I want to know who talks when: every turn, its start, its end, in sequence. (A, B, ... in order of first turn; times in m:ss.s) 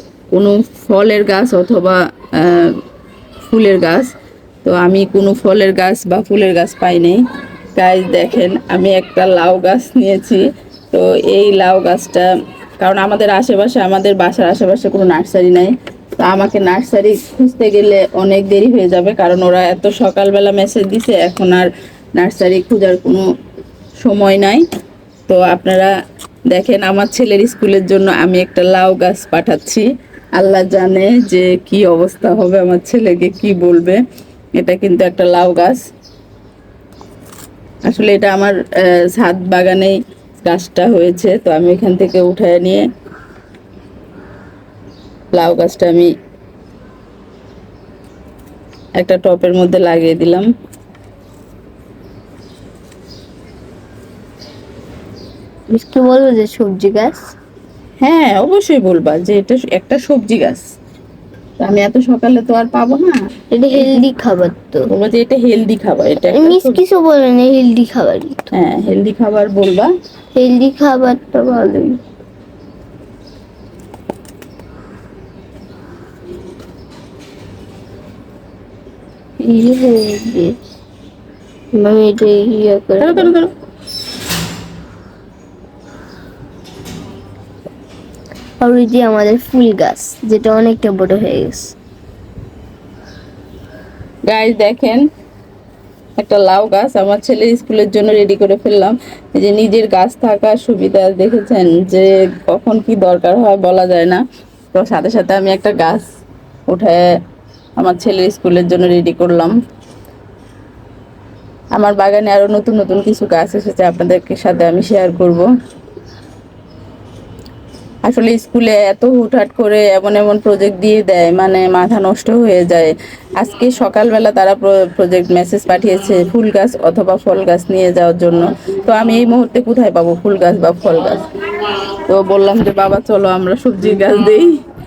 0:00.3-0:02.8 A
0:03.5-0:04.1 A
0:04.6-0:07.2 A
0:07.8-0:12.3 A
0:12.8-0:23.3 A
0:24.0-0:24.6 A
0:25.3-0:25.9 A
0:26.5-0:34.0 A
0:34.6-0:35.8 A
0:37.8-0:42.8 A
0:45.3-0:46.1 A
0:49.0-0:50.5 A
0:55.7-0:57.3 B
0:58.0-1:00.6 A
1:01.6-1:03.2 A
1:03.5-1:04.9 B
1:03.8-1:04.0 A
1:04.9-1:06.8 A
1:06.3-1:08.4 B
1:08.5-1:09.9 A
1:10.3-1:12.0 B
1:19.4-1:20.6 B
1:21.7-1:23.3 B
1:23.0-1:23.5 A
1:28.6-1:31.7 B
1:34.3-1:35.0 A
1:36.2-1:44.2 A
1:44.7-1:46.0 A
1:46.7-1:47.0 A
1:47.8-1:49.5 A
1:51.7-1:55.5 A
1:58.0-2:11.3 A
2:12.1-2:14.5 A